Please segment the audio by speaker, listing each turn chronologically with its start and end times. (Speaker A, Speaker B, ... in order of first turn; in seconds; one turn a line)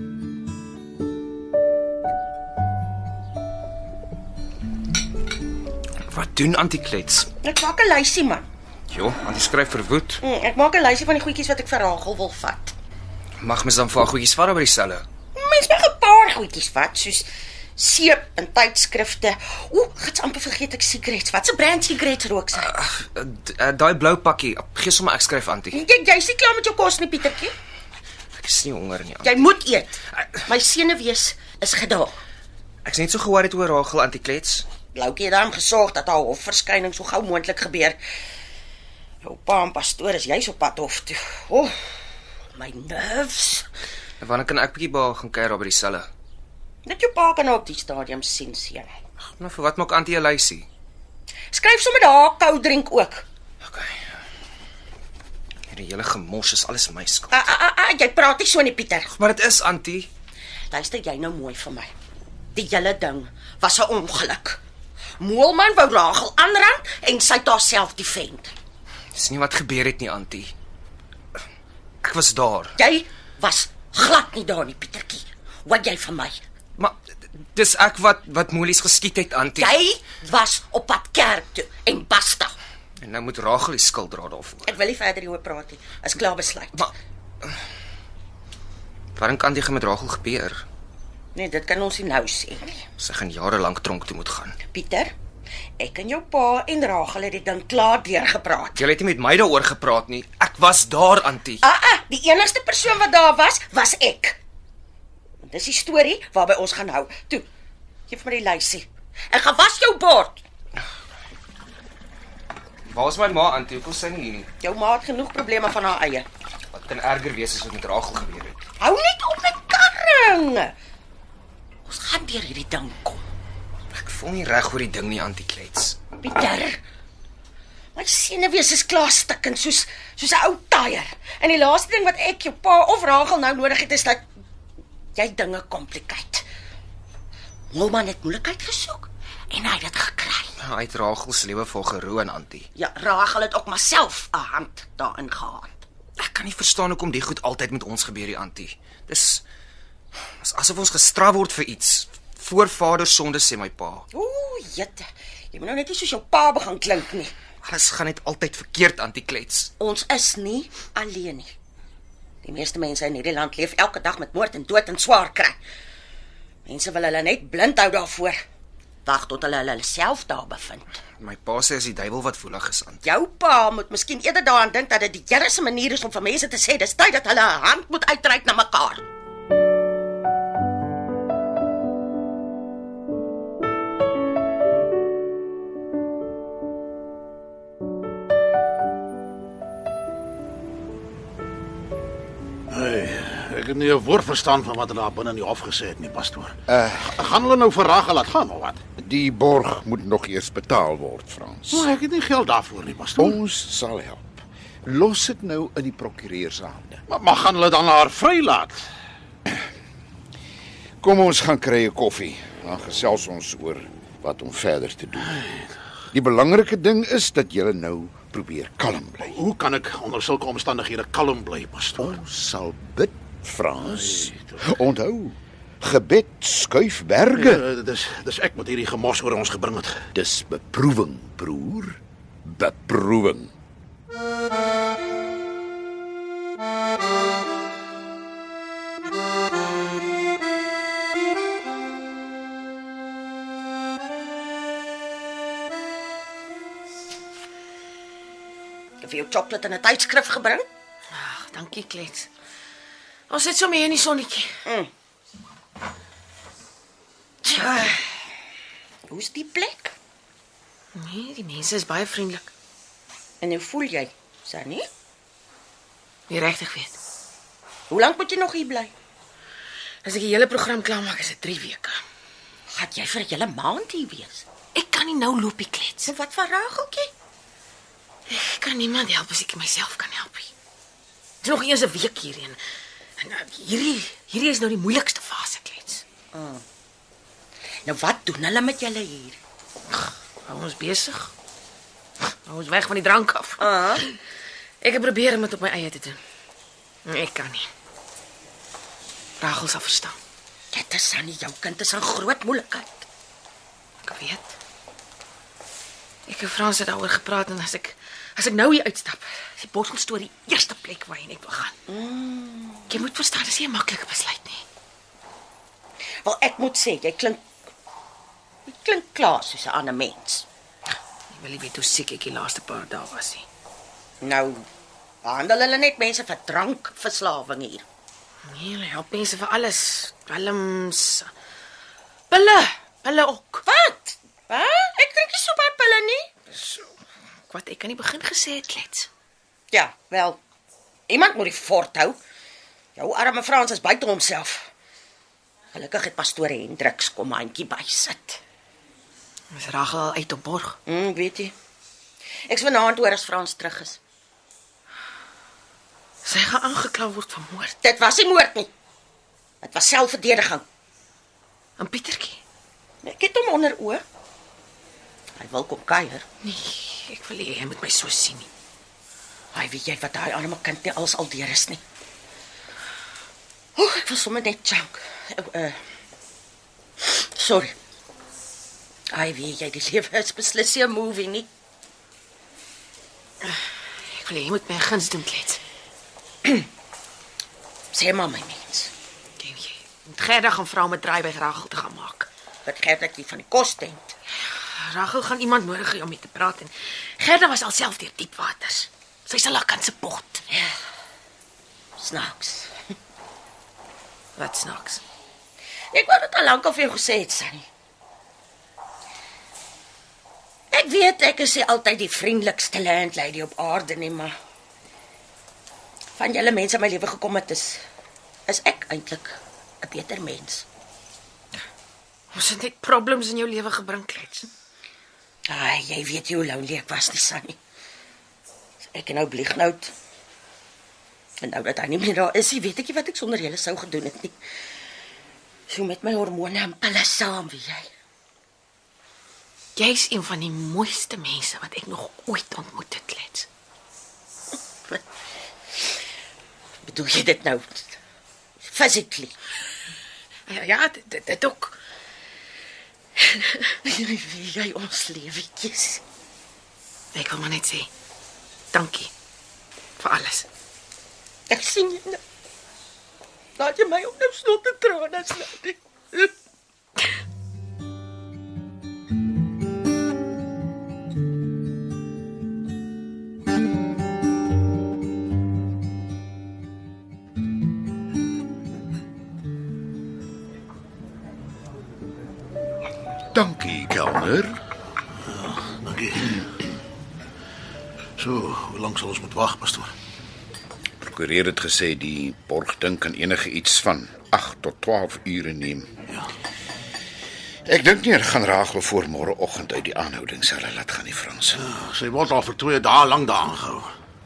Speaker A: 6.1-7.3
Speaker B: 7.4-8.5
Speaker A: 8.9-10.2
Speaker B: 10.2-12.8
Speaker A: 13.4-15.0
Speaker B: 15.3-22.7
Speaker A: 22.6-25.8
Speaker B: 25.7-27.5
Speaker A: 28.4-29.5
Speaker B: 29.2-32.1
Speaker A: 32.9-34.7
Speaker B: 34.9-38.0
Speaker B: 39.2-41.8
Speaker B: 42.5-43.7
Speaker A: 44.2-46.1
Speaker B: 46.9-48.9
Speaker A: 49.4-50.7
Speaker B: 51.5-53.3
Speaker A: 53.6-54.0
Speaker A: 55.7-57.5
Speaker B: 57.3-59.1
Speaker A: 59.1-60.1
Speaker B: 60.7-61.9
Speaker B: 62.5-64.6
Speaker B: 65.2-68.5
Speaker A: 69.1-70.5
Speaker A: 72.0-72.8
Speaker B: 72.8-76.4
Speaker A: 76.8-79.8
Speaker B: 79.6-82.5
Speaker A: 83.0-84.7
Speaker B: 84.7-86.9
Speaker A: 89.2-90.6
Speaker B: 91.3-92.8
Speaker A: 93.0-94.6
Speaker B: 94.7-95.1
Speaker B: 95.8-98.8
Speaker A: 98.8-101.6
Speaker B: 101.6-104.4
Speaker B: 105.4-107.5
Speaker B: 108.1-110.4
Speaker A: 112.9-114.5
Speaker B: 114.6-116.3
Speaker A: 116.7-118.6
Speaker B: 118.8-120.7
Speaker B: 121.9-123.2
Speaker A: 123.9-126.0
Speaker B: 126.2-126.8
Speaker B: 128.0-134.2
Speaker B: 135.2-136.4
Speaker B: 137.7-140.6
Speaker A: 140.6-142.7
Speaker B: 142.8-145.8
Speaker A: 146.2-149.4
Speaker A: 150.4-154.1
Speaker B: 154.1-157.3
Speaker A: 157.6-159.7
Speaker B: 159.8-161.5
Speaker B: 162.4-165.6
Speaker B: 166.7-168.4
Speaker B: 169.1-170.9
Speaker A: 171.2-173.0
Speaker B: 173.0-179.0
Speaker C: 192.7-196.6
Speaker D: 196.7-197.2
Speaker C: 197.1-198.8
Speaker D: 199.0-201.9
Speaker C: 201.7-203.4
Speaker D: 203.2-207.0
Speaker C: 207.1-208.8
Speaker D: 211.0-215.4
Speaker D: 216.1-219.4
Speaker C: 219.3-222.2
Speaker D: 222.0-227.6
Speaker C: 223.8-224.8
Speaker C: 227.3-230.0
Speaker D: 230.1-233.5
Speaker B: 249.0-250.7
Speaker E: 251.1-252.3
Speaker E: 253.3-254.6
Speaker B: 254.7-254.9
Speaker B: 257.4-258.1
Speaker B: 259.1-259.9
Speaker E: 260.9-262.5
Speaker B: 263.4-264.9
Speaker E: 266.3-266.9
Speaker B: 267.9-268.9
Speaker E: 270.0-272.0
Speaker B: 272.7-274.5
Speaker E: 274.8-276.1
Speaker B: 276.1-277.1
Speaker E: 278.3-280.5
Speaker E: 281.4-282.6
Speaker E: 283.2-286.1
Speaker B: 286.3-286.6
Speaker B: 287.9-289.4
Speaker E: 290.4-291.3
Speaker E: 292.5-294.2
Speaker B: 293.6-294.0
Speaker E: 294.8-296.2
Speaker E: 297.1-297.7
Speaker E: 299.4-300.2
Speaker B: 300.7-303.1
Speaker E: 304.0-304.6
Speaker E: 306.3-311.8
Speaker B: 311.9-312.9
Speaker E: 312.9-314.6
Speaker B: 316.2-317.4
Speaker B: 318.7-320.5
Speaker E: 321.3-323.5
Speaker B: 324.2-324.6
Speaker B: 325.2-327.9
Speaker E: 328.5-331.3
Speaker E: 332.3-333.6
Speaker B: 333.7-336.3
Speaker E: 337.5-339.1
Speaker B: 339.7-340.4
Speaker B: 341.1-342.2
Speaker B: 343.0-344.7
Speaker B: 345.7-348.4
Speaker E: 349.5-350.8
Speaker B: 350.9-351.6
Speaker B: 352.5-354.0
Speaker E: 356.2-357.8
Speaker B: 357.8-358.7
Speaker B: 359.6-360.6
Speaker E: 361.8-362.4
Speaker B: 363.0-364.0
Speaker B: 365.4-366.2
Speaker E: 366.4-368.5
Speaker B: 369.5-371.8
Speaker B: 373.8-375.8
Speaker B: 377.0-377.7
Speaker B: 379.1-381.5
Speaker E: 383.4-385.6
Speaker B: 387.9-388.9
Speaker E: 389.4-392.3
Speaker B: 392.6-394.1
Speaker E: 394.8-400.4
Speaker B: 402.0-402.7
Speaker E: 404.4-405.0
Speaker B: 405.9-407.7
Speaker B: 410.7-414.3
Speaker B: 416.2-417.8
Speaker B: 418.5-420.7
Speaker E: 422.3-424.5
Speaker B: 425.5-427.6
Speaker B: 428.9-429.9
Speaker B: 431.4-434.4
Speaker B: 435.7-437.9
Speaker E: 439.8-443.5
Speaker B: 446.8-448.0
Speaker B: 448.6-449.4
Speaker E: 450.5-451.8
Speaker E: 453.2-453.7
Speaker B: 453.8-456.0
Speaker E: 457.1-457.9
Speaker E: 458.7-459.1
Speaker E: 460.0-460.5
Speaker B: 461.5-462.2
Speaker B: 463.6-466.3
Speaker D: 483.3-484.6
Speaker C: 485.3-486.5
Speaker C: 488.2-489.9
Speaker D: 491.0-495.9
Speaker D: 497.7-501.6
Speaker C: 501.6-503.9